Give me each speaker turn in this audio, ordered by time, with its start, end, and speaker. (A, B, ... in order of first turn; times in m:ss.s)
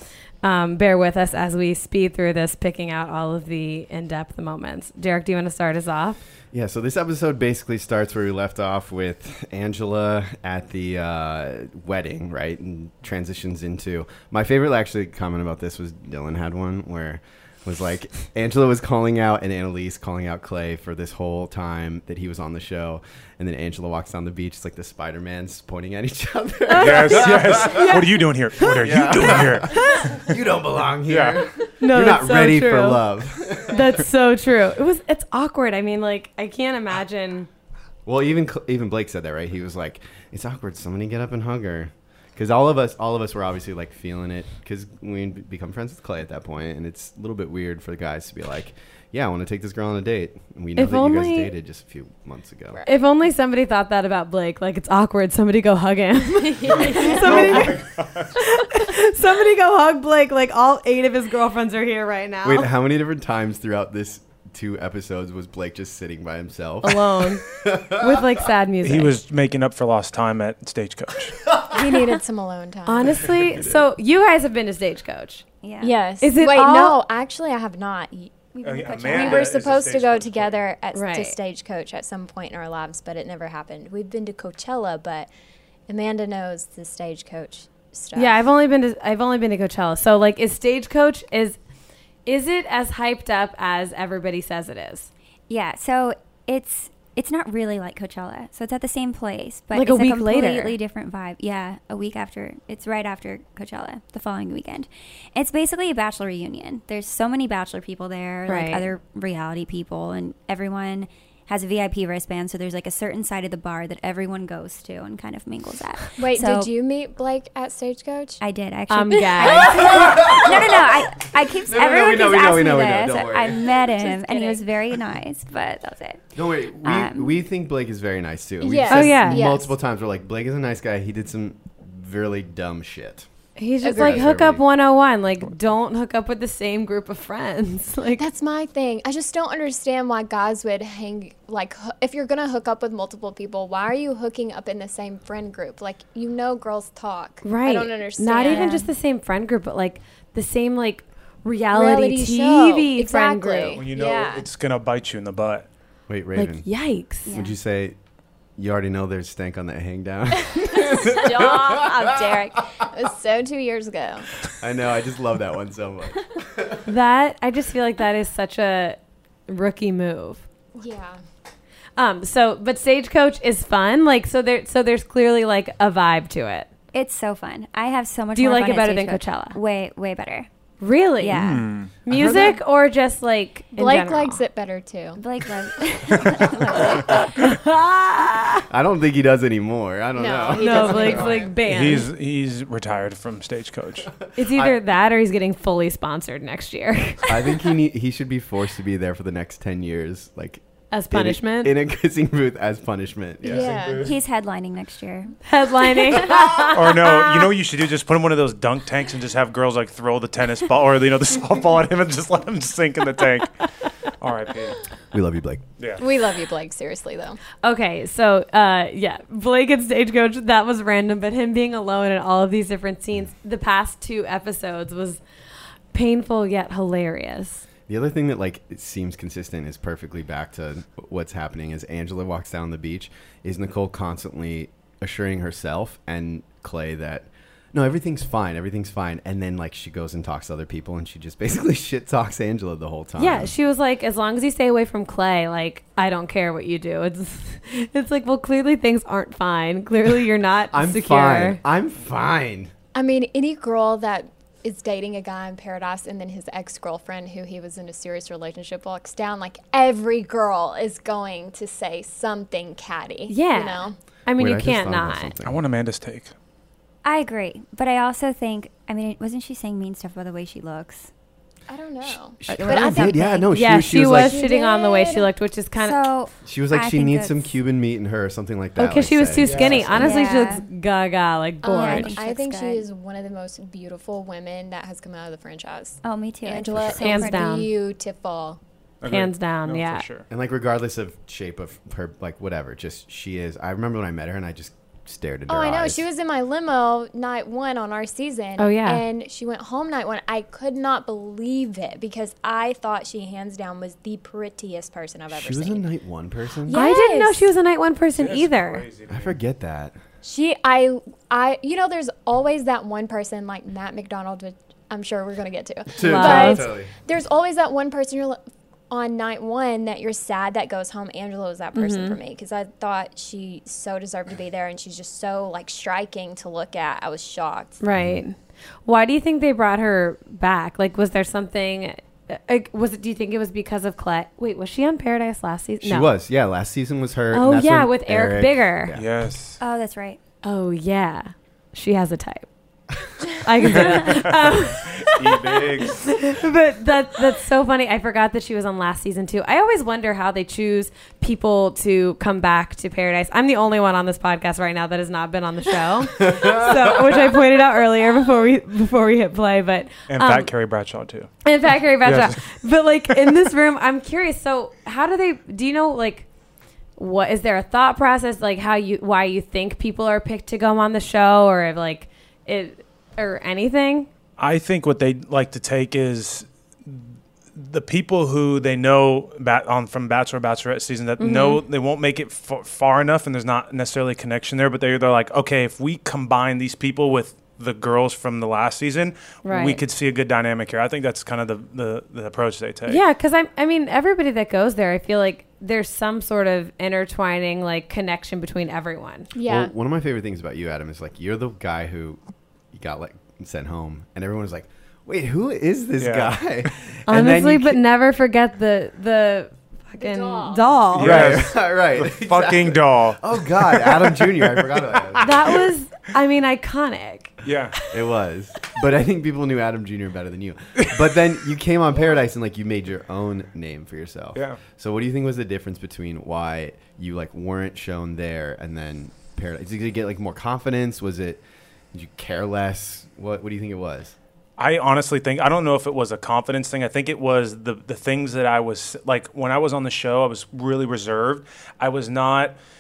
0:00.4-0:06.2 A
0:06.5-0:34.0 B
0:26.7-0:28.0 A
0:26.8-0:30.3 C
0:31.1-0:31.4 C
0:31.8-0:33.0 A
0:33.6-0:37.5 A
0:38.1-0:52.8 B
0:50.8-0:51.5 A
0:52.7-0:53.1 D
0:52.8-1:02.7 A
0:56.4-0:57.7 D
0:56.7-0:58.4 C
1:02.4-1:08.3 B
1:06.8-1:09.2 A
1:08.8-1:11.5 C
1:11.5-1:11.7 B
1:11.7-1:13.3 D
1:12.9-1:15.4 A
1:13.4-1:13.9 B
1:15.6-1:16.0 E
1:15.8-1:25.3 D
1:16.2-1:17.0 A
1:18.5-1:19.5 E
1:18.6-1:20.6 C
1:20.9-1:21.4 A
1:25.9-1:28.4 D
1:28.2-1:31.6 A
1:32.3-1:35.1 A
1:35.5-1:56.7 E
1:39.7-1:40.8 A
1:48.5-1:48.9 A
1:56.2-1:58.4 D
1:58.4-2:06.2 E
1:58.9-2:00.1 A
1:59.4-2:00.2 D
1:59.5-2:03.7 B
2:04.0-2:04.6 D
2:06.4-2:13.3 B
2:06.8-2:07.3 E
2:08.6-2:09.7 D
2:08.9-2:09.5 A
2:13.6-2:18.2 A
2:13.8-2:14.3 D
2:13.9-2:14.6 B
2:18.2-2:28.8 D
2:27.4-2:33.8 A
2:28.4-2:28.9 E
2:31.7-2:34.4 D
2:33.8-2:35.7 C
2:36.1-2:36.6 B
2:36.4-2:37.3 A
2:37.3-2:37.6 E
2:37.3-2:38.0 B
2:38.6-2:42.4 B
2:40.6-2:44.3 D
2:44.5-2:46.8 B
2:46.9-2:50.4 A
2:50.8-2:51.2 D
2:52.0-2:56.7 A
2:56.9-3:00.5 E
2:58.3-2:59.6 A
3:00.8-3:04.4 A
3:01.2-3:01.7 E
3:01.3-3:01.9 C
3:02.1-3:02.5 B
3:03.8-3:05.2 D
3:05.2-3:07.4 E
3:06.3-3:07.2 D
3:07.0-3:08.7 A
3:08.7-3:11.4 B
3:10.2-3:11.5 D
3:10.6-3:12.1 A
3:11.7-3:14.1 C
3:14.2-3:14.8 B
3:14.4-3:17.6 A
3:17.3-3:24.0 B
3:20.9-3:21.7 A
3:23.4-3:24.2 D
3:23.5-3:24.1 C
3:24.0-3:25.4 E
3:25.4-3:27.2 A
3:26.2-3:26.7 B
3:26.7-3:34.8 C
3:35.1-3:35.6 B
3:36.0-3:37.4 D
3:37.6-3:45.2 A
3:45.9-3:47.7 A
3:47.9-4:03.5 B
4:03.2-4:11.6 A
4:10.7-4:12.7 B
4:12.9-4:24.0 D
4:23.3-4:25.3 A
4:24.4-4:25.6 B
4:25.4-4:26.3 C
4:27.0-4:31.1 E
4:31.7-4:33.4 D
4:32.4-4:34.4 B
4:32.5-4:33.5 E
4:33.5-4:36.0 A
4:34.1-4:35.3 D
4:35.8-4:37.5 E
4:36.4-4:40.2 B
4:38.8-4:42.2 A
4:39.4-4:40.1 C
4:40.0-4:40.6 E
4:41.6-4:42.8 E
4:41.6-4:48.6 D
4:46.0-4:47.5 E
4:47.0-4:47.7 A
4:49.0-4:50.3 C
4:49.1-4:50.0 A
4:50.3-4:56.1 B
4:55.5-5:05.8 D
4:58.6-4:59.0 A
5:05.3-5:06.8 B
5:06.7-5:07.5 D
5:06.7-5:08.8 A
5:08.2-5:09.4 C
5:09.1-5:10.0 B
5:10.2-5:18.4 D
5:15.9-5:16.9 B
5:16.0-5:16.7 A
5:18.9-5:27.8 D
5:21.8-5:22.2 A
5:27.8-5:36.1 A
5:28.0-5:28.2 B
5:35.8-5:39.0 B
5:37.3-5:39.0 A
5:38.9-5:39.6 C
5:39.6-5:40.2 E
5:40.4-5:42.5 A
5:43.3-6:00.5 A
5:43.6-5:46.2 C
5:56.1-5:57.3 B
6:00.1-6:01.3 C
6:01.4-6:06.3 A
6:02.0-6:02.5 C
6:07.0-6:14.1 A
6:14.4-6:17.0 C
6:17.6-6:33.0 C
6:21.2-6:21.6 A
6:29.4-6:29.8 A
6:32.9-6:39.3 A
6:39.3-6:39.7 D
6:39.4-6:42.2 B
6:42.7-6:47.8 B
6:46.0-6:46.4 C
6:47.1-6:51.3 A
6:50.0-6:50.6 D
6:50.9-6:55.4 C
6:51.0-6:55.4 B
6:55.2-6:57.4 A
6:57.4-6:57.8 C
6:57.9-7:14.2 B
7:04.4-7:04.6 C
7:14.6-7:22.6 C